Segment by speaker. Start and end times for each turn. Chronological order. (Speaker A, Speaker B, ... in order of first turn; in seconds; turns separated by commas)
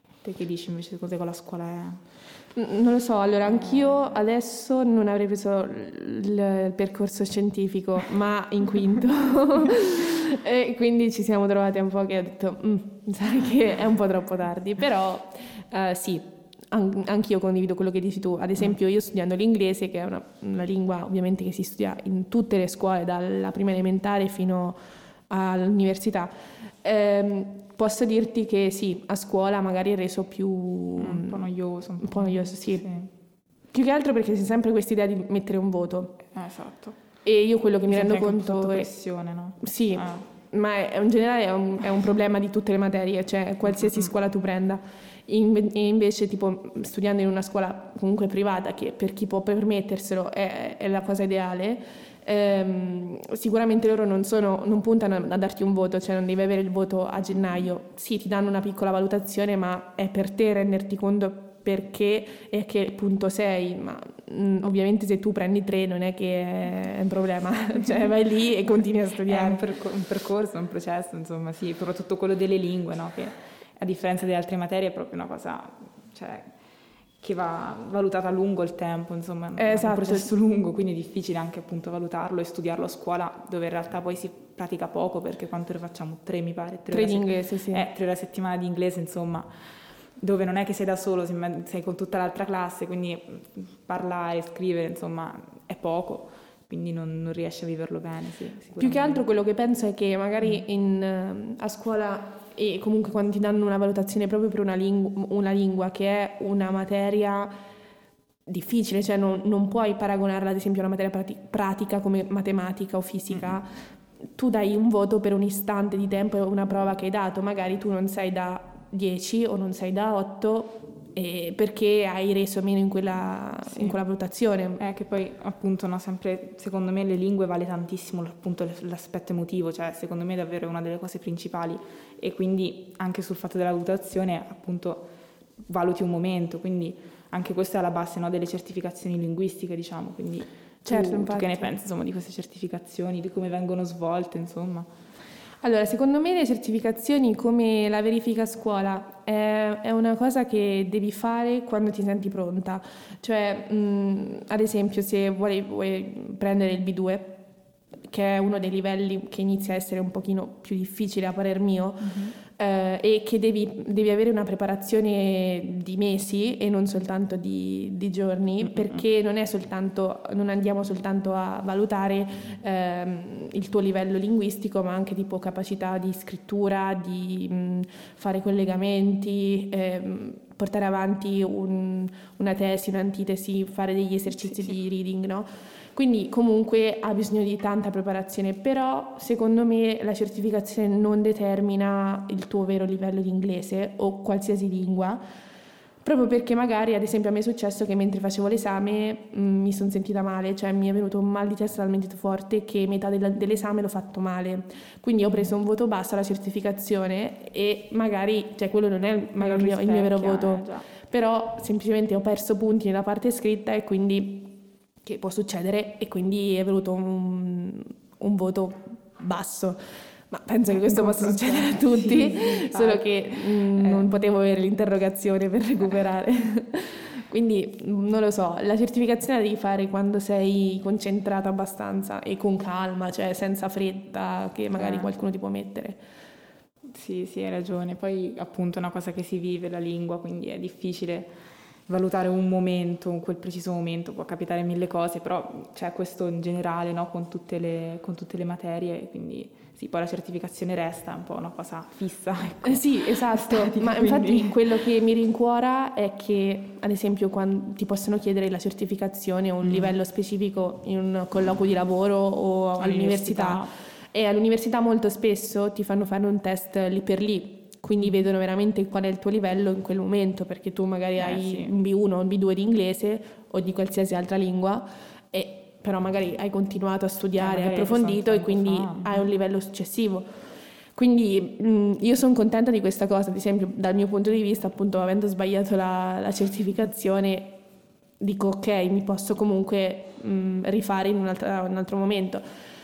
Speaker A: 0.2-2.0, Speaker B: 2.5-24.8, Speaker A: 3.5-4.0, Speaker B: 25.3-26.3, Speaker B: 26.8-31.4, Speaker A: 31.0-33.1, Speaker B: 32.0-32.9, Speaker B: 33.7-36.2, Speaker A: 36.3-37.0, Speaker B: 37.2-38.9, Speaker A: 37.9-40.3, Speaker B: 39.6-69.6, Speaker A: 69.3-76.5, Speaker A: 77.2-89.5, Speaker B: 79.6-80.3, Speaker B: 86.9-87.9, Speaker A: 90.2-99.2, Speaker B: 98.8-107.5, Speaker B: 108.5-113.7, Speaker B: 114.4-124.8, Speaker A: 124.8-135.1, Speaker A: 135.7-144.9, Speaker B: 140.8-141.7, Speaker B: 145.6-157.4, Speaker B: 158.1-195.2, Speaker A: 168.6-169.0, Speaker B: 196.0-219.8, Speaker A: 209.4-210.9, Speaker B: 220.3-236.0, Speaker A: 220.8-224.1, Speaker A: 234.8-235.1, Speaker A: 236.9-241.3, Speaker A: 241.9-254.6, Speaker B: 252.6-280.3, Speaker A: 259.6-259.9, Speaker A: 262.8-263.7, Speaker A: 271.2-271.7, Speaker A: 277.4-279.3, Speaker B: 280.9-287.6, Speaker B: 288.2-292.4